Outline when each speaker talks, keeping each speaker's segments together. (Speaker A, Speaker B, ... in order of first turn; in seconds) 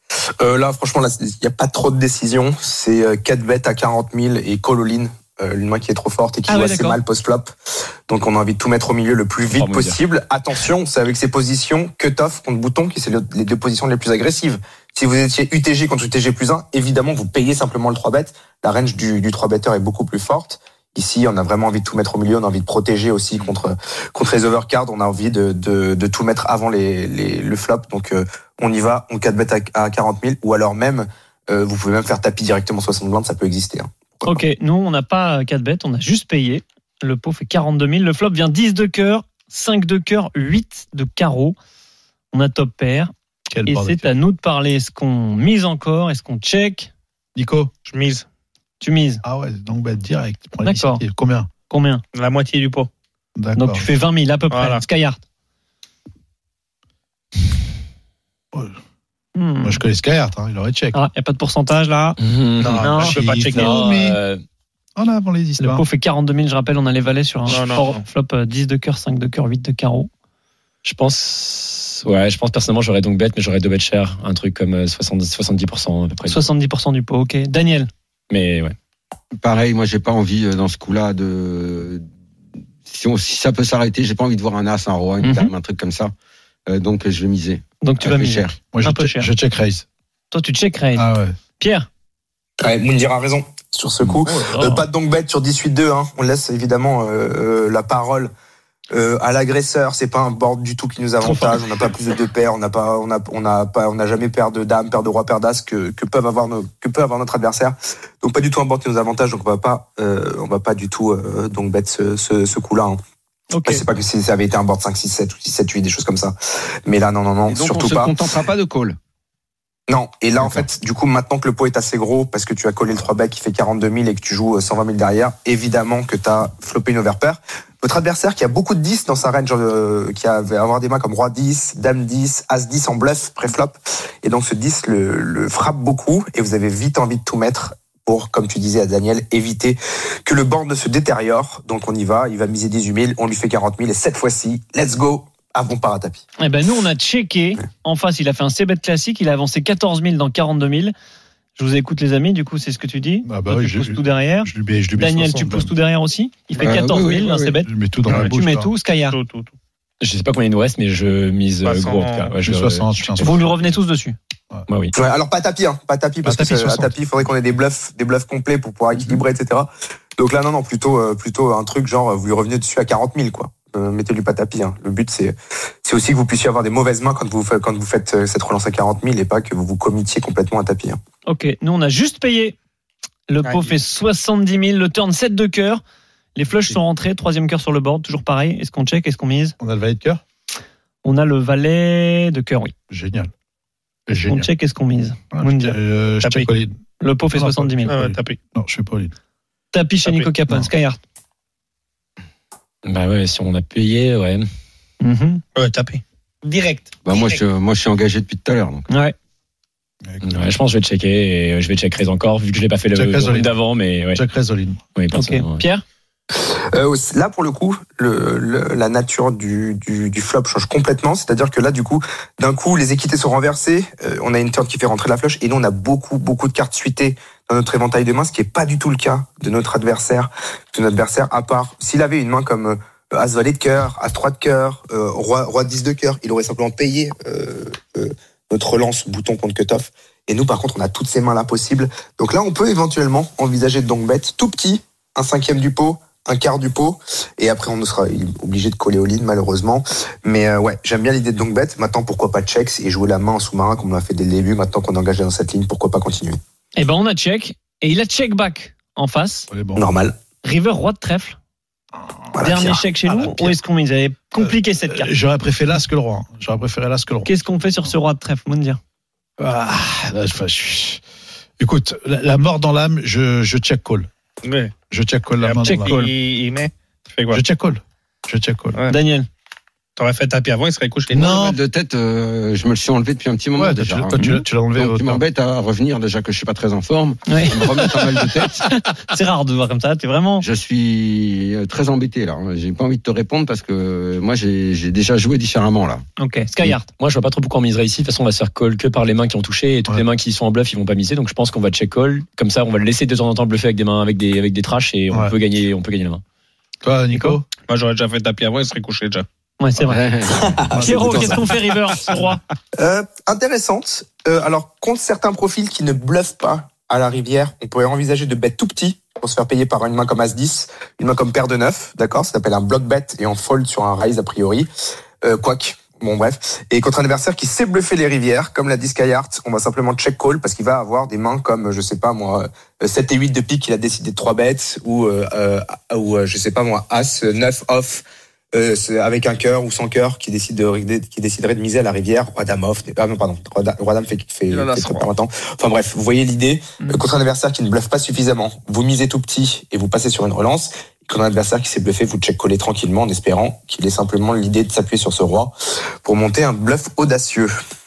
Speaker A: 0.4-7.5, 8.1-34.4, 92.6-98.3, 98.9-113.0, 113.6-118.2, 119.9-146.2, 164.9-181.0, 216.3-256.4, 259.8-260.1, 262.3-262.8, 310.3-311.5, 312.8-324.7, 325.2-357.5
Speaker B: 6.5-7.0, 34.2-41.6, 42.3-43.1, 43.6-46.9, 48.8-49.2, 50.6-51.0, 51.7-52.0, 53.5-55.2, 59.3-59.8, 60.9-62.2, 62.8-63.2, 65.6-70.1, 76.2-77.9, 85.2-85.5, 87.8-89.3, 90.3-91.9, 94.2-94.8, 101.2-101.5, 113.5-113.8, 146.4-150.9, 151.6-159.2, 163.2-164.2, 181.2-182.6, 183.3-185.8, 186.3-189.6, 191.0-192.7, 194.2-195.8, 197.0-197.9, 199.7-201.0, 205.0-205.4, 208.9-209.1, 215.1-215.8, 256.8-259.5, 260.4-261.4, 262.4-265.1, 267.2-268.8, 275.6-275.9, 278.9-279.3, 287.3-288.1, 288.8-290.5, 296.2-296.9, 307.1-307.4, 309.6-310.0, 310.8-312.4
Speaker C: 9.5-10.0, 62.2-64.4, 70.8-76.5, 78.3-78.7, 160.0-163.3, 164.7-164.9, 202.8-204.4, 210.2-214.2, 214.9-215.6, 296.9-306.2
Speaker D: 43.5-44.1, 47.3-47.7, 49.2-51.5, 53.4-53.8, 59.6-61.0, 63.0-64.2, 65.0-65.8, 88.7-89.8, 90.9-91.3, 153.2-155.7, 157.6-158.7, 162.4-163.6, 166.2-167.0, 189.6-190.2, 192.9-193.3, 194.1-194.5, 195.3-196.8, 197.3-199.1, 210.0-210.5, 212.9-214.8, 259.5-259.8, 263.1-263.5, 264.4-267.9, 269.4-271.0, 271.6-274.1, 274.9-276.1, 277.3-278.8, 281.1-281.6, 283.6-285.2, 305.1-305.4, 306.8-307.4, 310.7-311.4
Speaker E: 47.9-48.2, 52.1-52.9, 54.5-54.8, 62.6-63.8, 67.5-68.0, 156.6-156.9, 158.0-158.3, 159.0-159.5, 161.6-162.4, 183.4-183.7, 196.2-196.5, 197.9-198.4, 200.1-200.3, 205.6-207.4, 274.4-274.7, 275.4-277.4, 280.0-281.4, 307.7-309.2
Speaker F: 79.4-82.1, 82.8-86.1, 86.7-88.6, 117.5-119.0, 156.6-157.6, 207.0-208.8, 281.2-288.7, 290.4-296.0, 309.8-310.5, 344.5-345.1